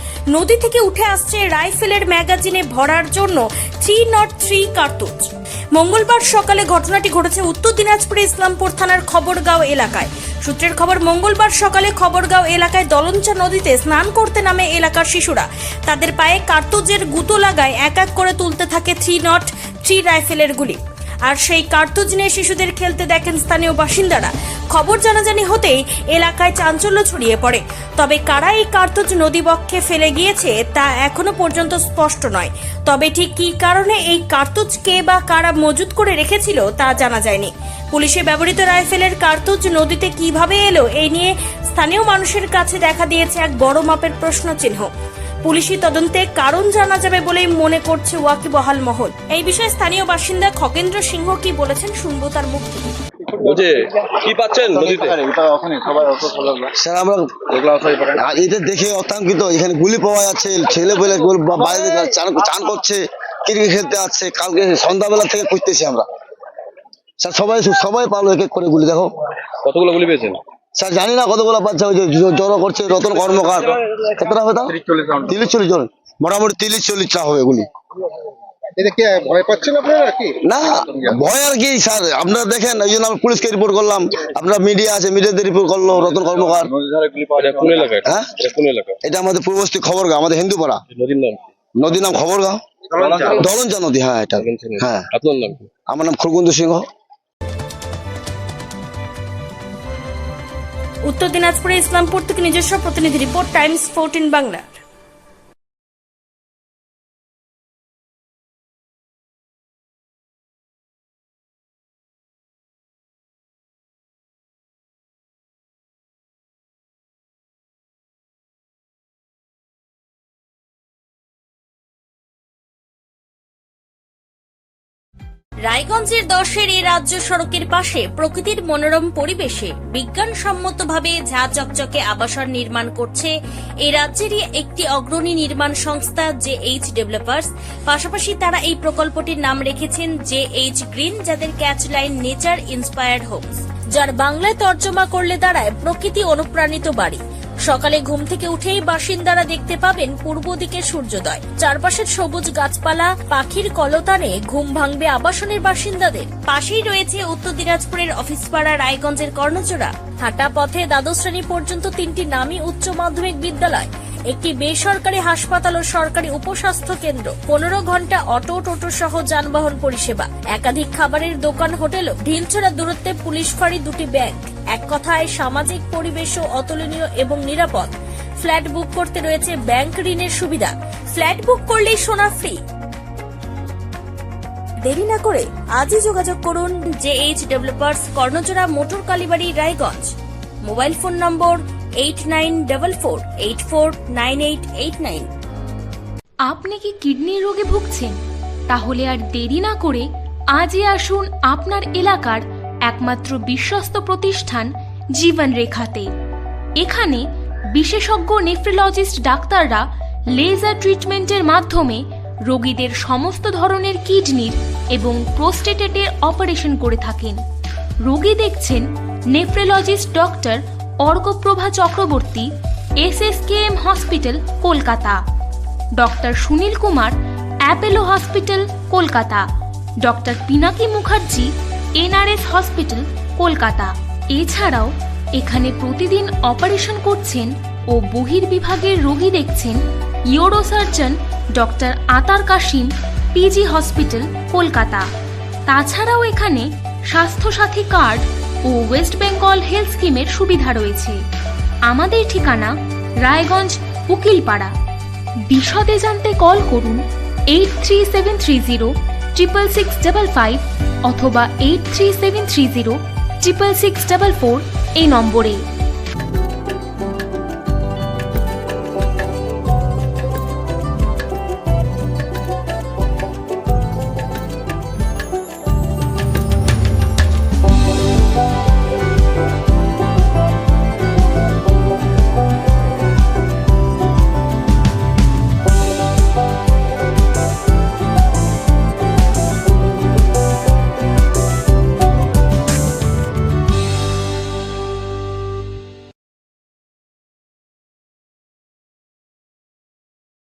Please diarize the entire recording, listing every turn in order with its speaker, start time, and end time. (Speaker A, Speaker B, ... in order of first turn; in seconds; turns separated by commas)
Speaker A: 0.3-44.9, Speaker A: 45.5-52.9, Speaker B: 53.4-55.2, Speaker C: 54.7-56.7, Speaker D: 56.8-66.1, Speaker D: 67.2-69.1, Speaker B: 69.6-70.4, Speaker D: 70.8-77.7, Speaker C: 78.8-80.4, Speaker D: 80.5-86.7, Speaker C: 86.8-87.9, Speaker B: 87.0-89.0, Speaker D: 88.0-88.3, Speaker D: 89.0-90.8, Speaker B: 90.9-91.5, Speaker D: 91.8-92.6, Speaker D: 93.2-95.1, Speaker B: 94.4-95.7, Speaker D: 95.9-96.8, Speaker A: 101.1-104.7, Speaker A: 125.7-182.6, Speaker A: 184.9-190.1, Speaker A: 190.7-195.3, Speaker E: 196.5-198.2, Speaker E: 198.7-206.1, Speaker E: 206.8-217.4, Speaker E: 218.0-225.2, Speaker E: 226.0-229.5, Speaker E: 230.0-245.1, Speaker E: 245.7-251.2, Speaker E: 251.9-254.7, Speaker E: 255.5-265.7